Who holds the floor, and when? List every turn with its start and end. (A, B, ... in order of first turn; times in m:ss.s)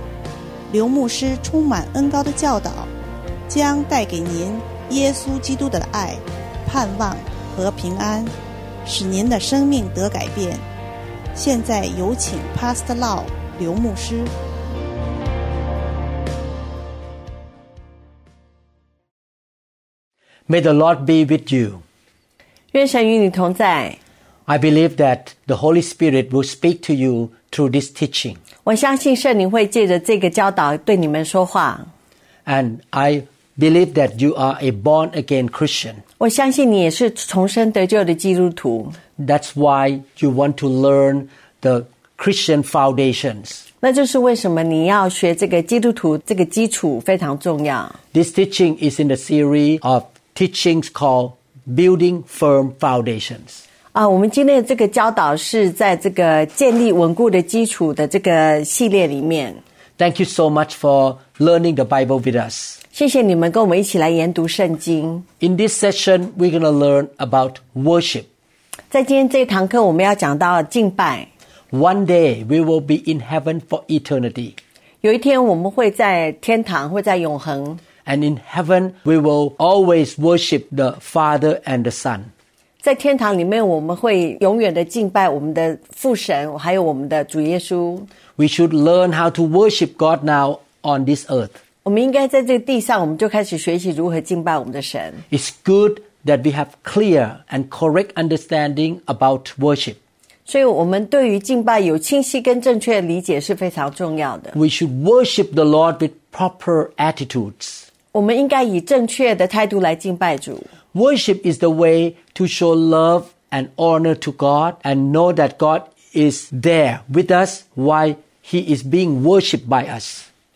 0:00.7-0:02.9 A
0:03.5-0:08.3 A
0:08.8-0:10.6 A
0:11.3-0:14.3 A
0:20.5-0:21.8 B
0:22.7-0:24.0 C
0:24.5-0:28.4 B
0:28.6-0:31.9 C
0:32.4-0:36.0 B
0:36.2-0:39.0 C
0:39.2-0:43.6 B
0:43.8-0:48.0 C
0:48.1-0:53.6 B
0:53.9-0:59.6 C
1:00.0-1:02.8 B
1:02.9-1:05.2 C
1:05.4-1:08.3 B
1:08.9-1:11.3 C
1:11.7-1:14.6 B
1:15.0-1:17.8 C
1:18.0-1:22.3 B
1:22.8-1:28.1 C
1:28.4-1:31.6 B
1:31.8-1:35.2 C
1:35.3-1:40.0 B
1:40.5-1:44.5 C
1:44.5-1:47.9 B
1:48.1-1:50.7 C
1:50.9-2:00.2 B